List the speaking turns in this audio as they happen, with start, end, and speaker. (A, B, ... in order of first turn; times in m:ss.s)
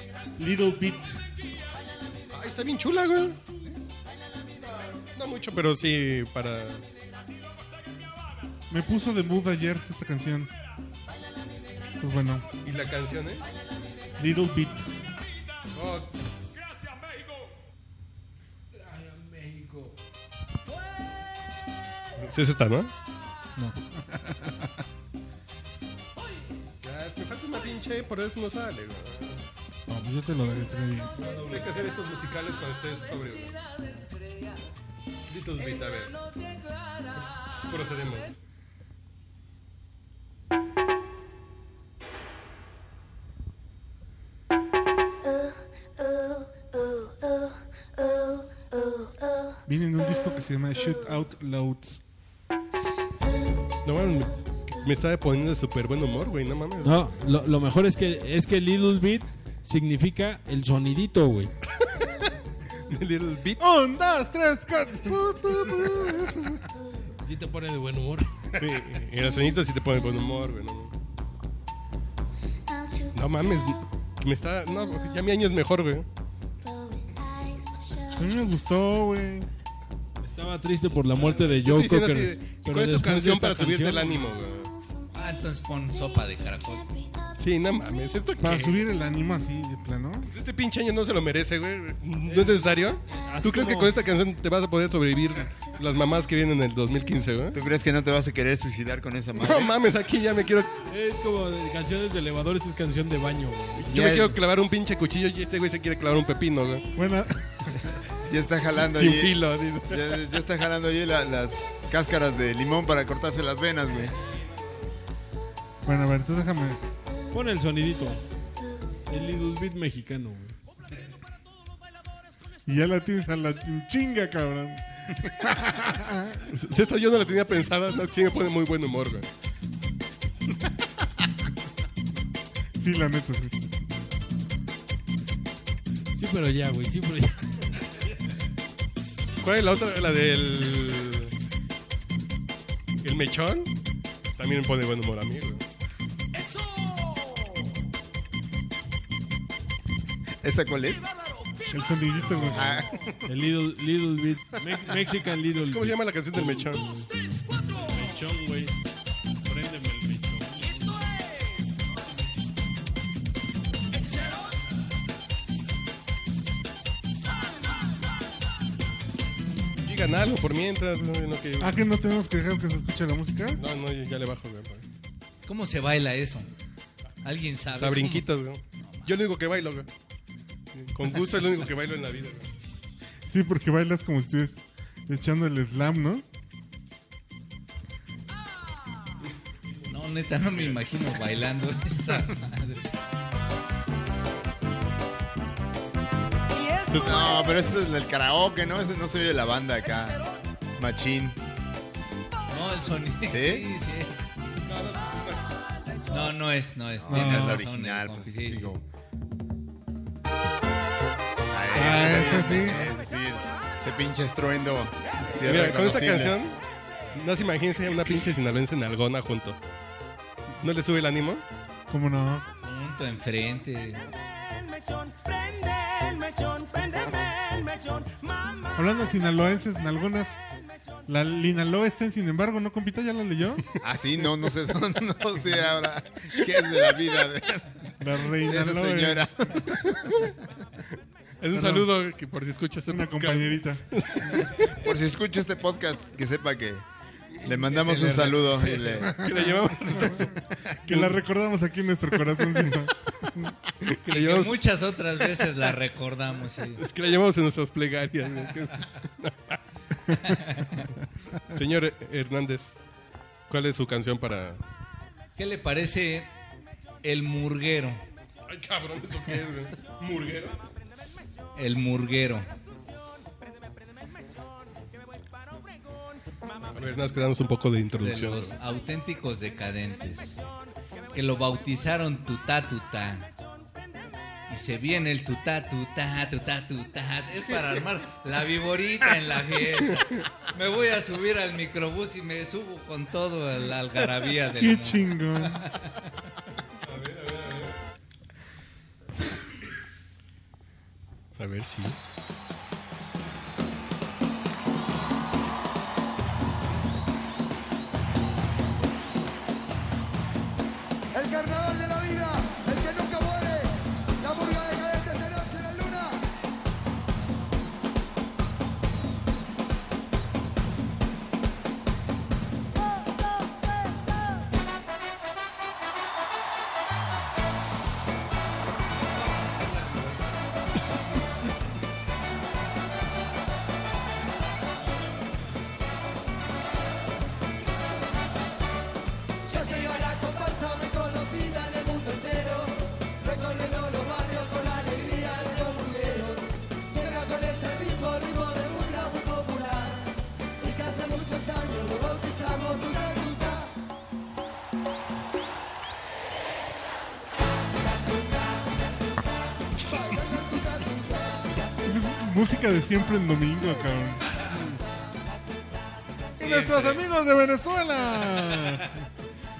0:00.4-0:01.2 A
0:02.3-0:03.4 B
0:04.6-0:06.8 B
0:08.7-0:10.5 A
0:12.0-0:12.5 A
0:12.6-0:13.4 B
0:14.2-0:15.0 A
0:15.7-0:16.1 B
0:18.7-0:20.0 C
0:22.2-0:22.9 B
0:23.6-0:24.8 A
0:26.8-0:29.4 B
0:29.9-0:31.5 A
0:31.2-0:33.6 B
0:35.3-0:36.2 B
0:37.2-0:38.3 B
0:49.6-0:52.0 A
0:53.8-0:56.9 B
0:56.8-1:01.5 C
1:01.8-1:02.4 B
1:02.9-1:03.6 B
1:03.6-1:06.6 A
1:05.1-1:06.6 B
1:07.2-1:08.4 C
1:08.6-1:10.9 B
1:13.1-1:16.0 B
1:18.1-1:19.5 A
1:20.2-1:24.4 C
1:21.0-1:24.7 B
1:25.1-1:26.9 D
1:27.4-1:28.8 B
1:28.4-1:30.3 A
1:30.2-1:37.6 B
1:32.2-1:34.0 C
1:37.5-1:39.7 E
1:39.4-1:40.8 B
1:40.9-1:44.0 C
1:43.8-1:46.8 B
1:43.9-1:44.4 E
1:47.0-1:47.8 A
1:48.3-1:54.1 E
1:48.9-1:50.2 B
1:55.8-1:56.8 A
1:57.3-1:58.2 C
1:59.1-2:00.6 C
2:02.6-2:06.4 A
2:06.5-2:09.2 B
2:12.8-2:13.5 A
2:16.1-2:17.8 C
2:19.4-2:21.3 B
2:23.0-2:23.7 B
2:24.3-2:25.6 B
2:30.4-2:31.1 E
2:31.7-2:32.8 A
2:32.3-2:32.6 C
2:32.5-2:33.0 E
2:33.3-2:37.0 C
2:35.6-2:36.9 B
2:37.7-2:38.7 C
2:39.4-2:41.1 C
2:49.8-2:51.8 B
2:51.6-2:53.6 A
2:53.6-2:54.8 B
2:55.4-2:56.5 D
2:57.2-2:59.2 D
2:57.8-2:59.9 B
3:00.7-3:02.5 B
3:03.3-3:06.2 A
3:09.9-3:12.8 D
3:16.8-3:17.3 B
3:16.9-3:20.2 E
3:20.8-3:21.4 E
3:22.5-3:24.3 D
3:23.3-3:23.7 E
3:24.6-3:25.4 B
3:26.1-3:28.8 D
3:27.0-3:28.8 E
3:27.1-3:27.6 A
3:31.5-3:36.4 E
3:31.7-3:32.9 A
3:31.8-3:32.8 D
3:35.4-3:36.6 B
3:37.1-3:39.6 B
3:40.6-3:41.4 B
3:41.9-3:42.4 A
3:42.6-3:44.1 D
3:44.8-3:48.5 F
3:48.7-3:50.4 A
3:51.1-3:53.6 A
3:53.8-4:00.2 E
3:58.0-3:59.3 A
4:01.4-4:04.8 B
4:01.5-4:01.9 A
4:02.9-4:03.8 A
4:04.7-4:06.8 E
4:07.4-4:09.4 E
4:07.6-4:09.0 D
4:08.6-4:11.2 B
4:09.0-4:10.3 A
4:10.8-4:13.5 A
4:13.8-4:14.6 B
4:14.0-4:16.8 D
4:16.8-4:19.6 B
4:20.1-4:20.9 D
4:21.5-4:22.8 B
4:23.5-4:24.6 B
4:25.4-4:26.3 D
4:27.0-4:28.0 D
4:28.5-4:30.6 B
4:31.5-4:32.5 D
4:36.6-4:38.5 B
4:38.0-4:40.4 D
4:41.1-4:43.3 D
4:44.5-4:55.9 D
4:54.5-4:55.7 A
4:56.8-4:57.7 B
5:01.4-5:02.0 B
5:29.3-5:30.4 D
5:39.6-5:42.7 F
5:43.4-5:46.4 F
5:46.9-5:50.0 F
5:50.6-5:53.6 F
6:00.4-6:01.0 F
6:01.8-6:04.3 A
6:04.3-6:04.6 D
6:06.3-6:07.0 D
6:06.4-6:09.0 A
6:08.4-6:08.8 D